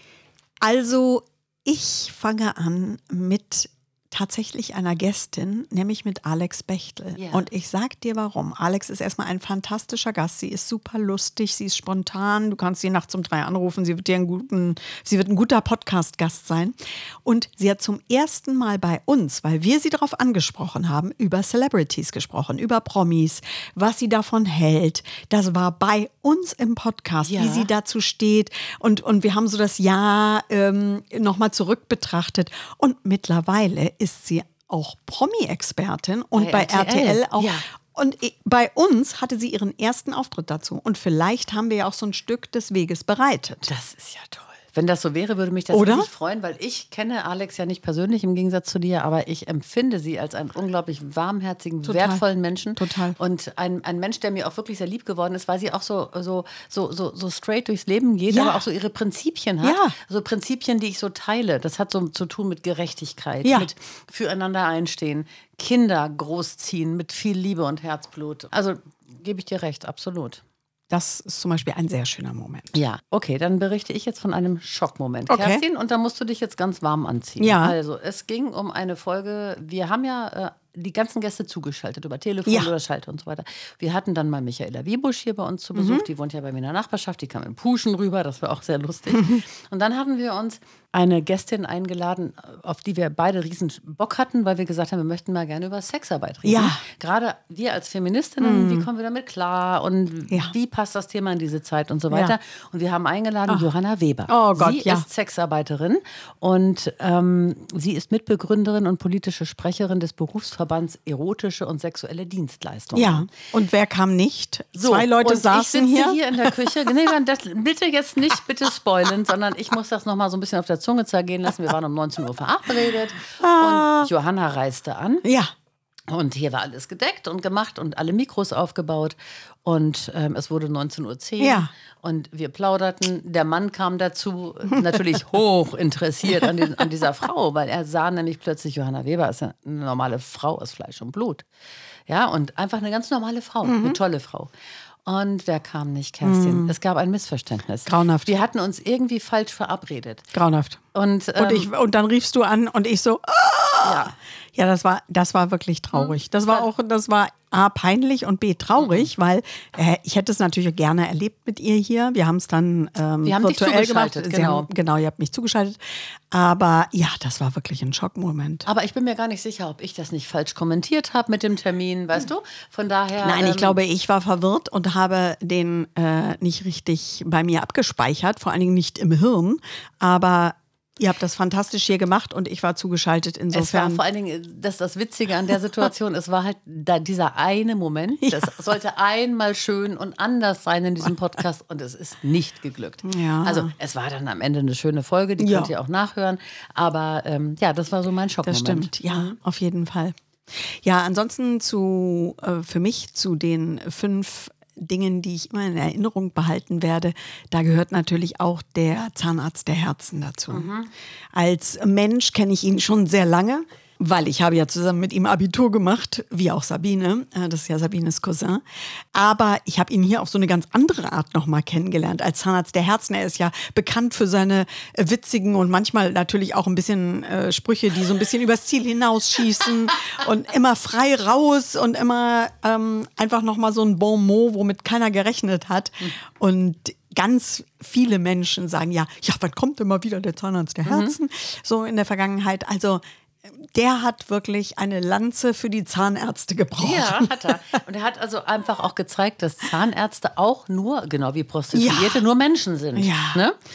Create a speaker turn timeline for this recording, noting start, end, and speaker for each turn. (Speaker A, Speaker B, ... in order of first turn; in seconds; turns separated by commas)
Speaker A: 0.6-43.7, Speaker B: 7.2-7.5, Speaker B: 27.2-27.7, Speaker B: 36.4-37.6, Speaker B: 43.6-70.4, Speaker A: 45.7-46.1, Speaker A: 51.9-52.2, Speaker A: 52.8-53.2, Speaker A: 58.3-58.6, Speaker A: 59.6-60.0, Speaker A: 63.4-63.7, Speaker A: 70.9-72.8, Speaker B: 72.7-113.3, Speaker A: 75.3-75.6, Speaker A: 77.4-77.8, Speaker A: 82.5-82.7, Speaker A: 85.8-86.1, Speaker A: 89.1-89.4, Speaker A: 96.5-96.8, Speaker A: 98.4-98.9, Speaker A: 102.1-102.4, Speaker A: 104.3-105.1, Speaker A: 112.9-116.9, Speaker B: 114.8-125.3, Speaker A: 123.4-124.1, Speaker A: 125.2-125.5, Speaker B: 126.1-141.4, Speaker A: 131.4-131.7, Speaker A: 134.7-135.0, Speaker B: 142.1-144.5, Speaker A: 143.6-144.0, Speaker B: 145.1-150.3, Speaker A: 146.2-146.7, Speaker A: 147.9-148.3, Speaker A: 150.3-150.8, Speaker B: 150.9-151.7, Speaker A: 151.4-165.8, Speaker B: 153.8-154.1, Speaker B: 155.9-156.7, Speaker B: 158.8-159.1, Speaker B: 163.2-164.7, Speaker A: 166.3-168.7, Speaker B: 168.7-173.8, Speaker A: 173.2-184.0, Speaker B: 183.5-199.4, Speaker A: 188.2-188.5, Speaker A: 193.0-193.7, Speaker A: 195.4-195.7, Speaker A: 198.4-210.7, Speaker B: 210.5-210.9, Speaker A: 211.3-247.3, Speaker B: 240.8-241.2, Speaker B: 246.8-253.6, Speaker A: 251.7-252.2, Speaker A: 253.0-253.4